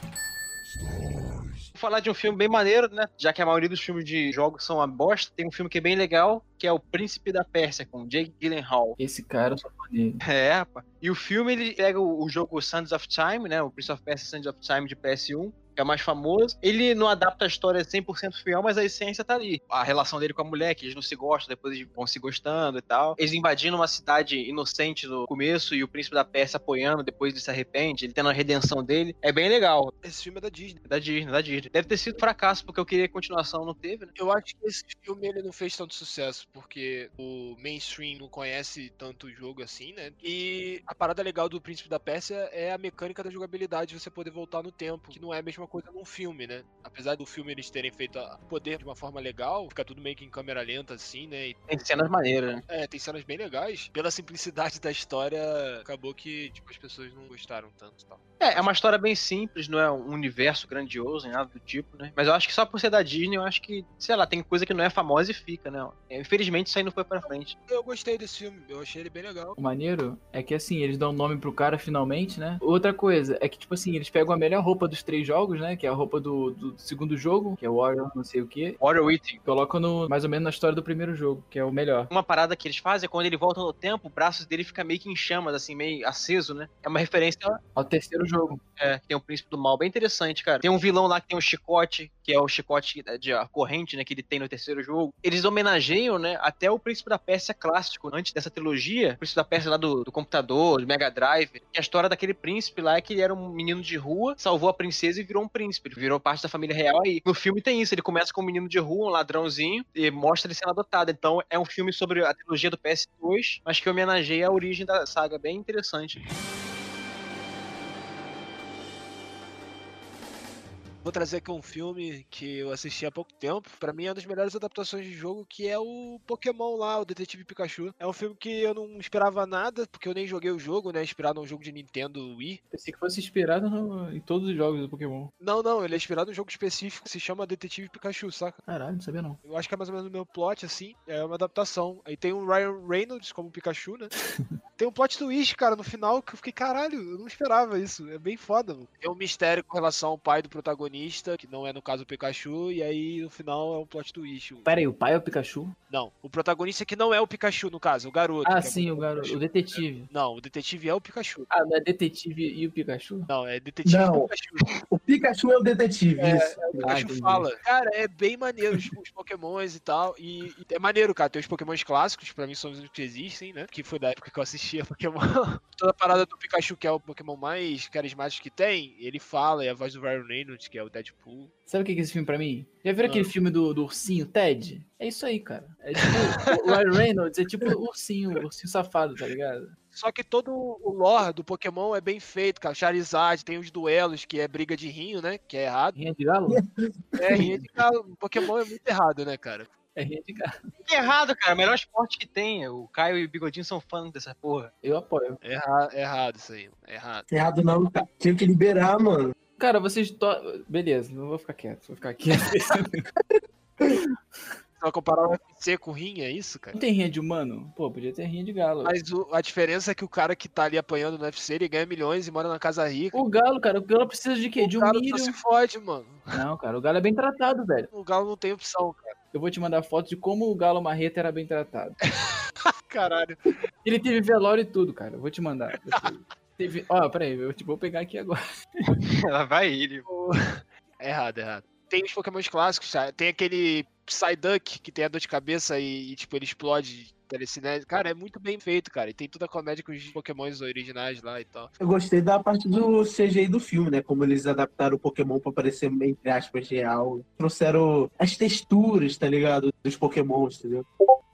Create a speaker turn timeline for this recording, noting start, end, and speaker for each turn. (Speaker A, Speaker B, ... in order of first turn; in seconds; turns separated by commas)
Speaker A: 1.8-9.0, Speaker B: 9.0-10.2, Speaker A: 10.2-29.9, Speaker C: 30.0-30.8, Speaker A: 30.9-34.1, Speaker C: 34.2-51.6, Speaker A: 51.7-52.6, Speaker C: 52.7-58.2, Speaker A: 58.4-67.5, Speaker C: 67.2-69.6, Speaker B: 69.6-78.8, Speaker A: 78.8-79.4, Speaker B: 79.5-82.1, Speaker A: 82.1-87.6, Speaker B: 87.8-88.6, Speaker A: 88.8-116.2, Speaker C: 121.0-132.6, Speaker B: 132.7-135.3, Speaker C: 135.4-138.6, Speaker B: 138.7-139.4, Speaker C: 139.4-144.1, Speaker C: 144.8-154.7, Speaker B: 154.7-155.8, Speaker C: 155.9-161.5, Speaker B: 158.4-160.1, Speaker B: 161.5-163.3, Speaker C: 163.3-164.7, Speaker D: 163.8-164.3, Speaker D: 164.9-166.8, Speaker C: 166.2-181.5, Speaker B: 166.8-167.4, Speaker B: 181.7-189.8, Speaker C: 189.9-196.0, Speaker B: 195.9-196.6, Speaker D: 196.5-197.5, Speaker C: 197.2-199.7, Speaker B: 197.3-197.7, Speaker B: 199.9-200.5, Speaker A: 200.8-204.7, Speaker B: 204.8-205.4, Speaker C: 205.4-207.3, Speaker D: 207.3-209.3, Speaker B: 209.6-213.1, Speaker C: 214.8-216.8, Speaker B: 216.8-218.9, Speaker C: 218.8-223.2, Speaker B: 223.1-225.4, Speaker C: 224.6-226.4, Speaker B: 226.3-227.9, Speaker C: 227.9-229.1, Speaker B: 229.3-232.0, Speaker C: 232.9-233.4, Speaker B: 233.8-238.9, Speaker A: 239.1-240.1, Speaker C: 240.1-251.7, Speaker D: 251.8-260.9